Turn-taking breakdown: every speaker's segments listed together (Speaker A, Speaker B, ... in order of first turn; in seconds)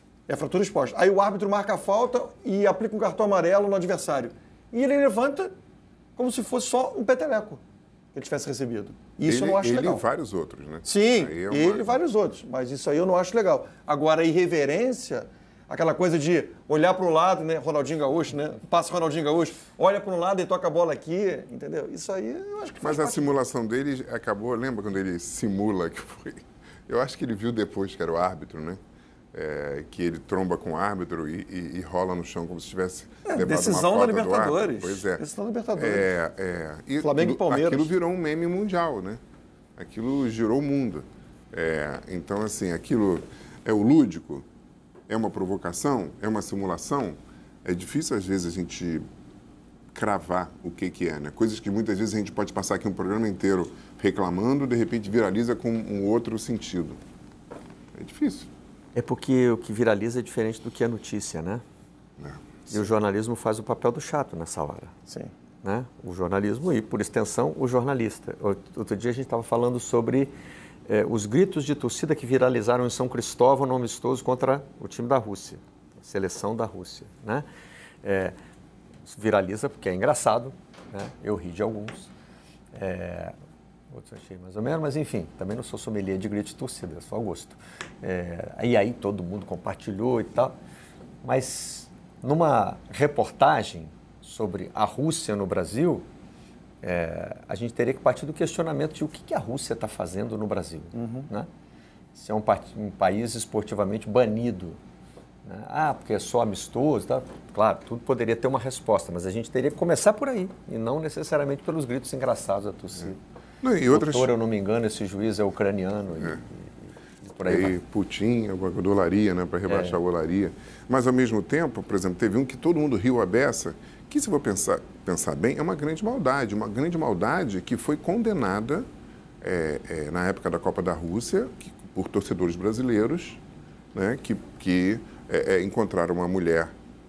Speaker A: 0.3-5.5, 6.2-7.6, 8.1-10.0, 10.8-23.2, 33.2-36.1, 37.0-37.9, 65.1-65.3, 100.9-101.3
Speaker B: 9.3-12.0, 22.8-28.8, 29.3-35.2, 35.8-39.2, 39.8-44.4, 45.1-49.0, 49.9-57.0, 57.9-58.5, 62.2-62.7, 113.6-114.3, 117.4-128.9, 129.4-133.4, 133.9-136.7
Speaker C: 58.9-61.6, 62.7-64.9, 65.6-70.3, 70.9-77.5, 78.0-78.3, 79.0-82.1, 82.7-83.3, 83.9-90.5, 91.2-96.0, 96.8-101.5, 102.1-104.8, 105.4-113.2, 113.9-117.8, 119.7-120.0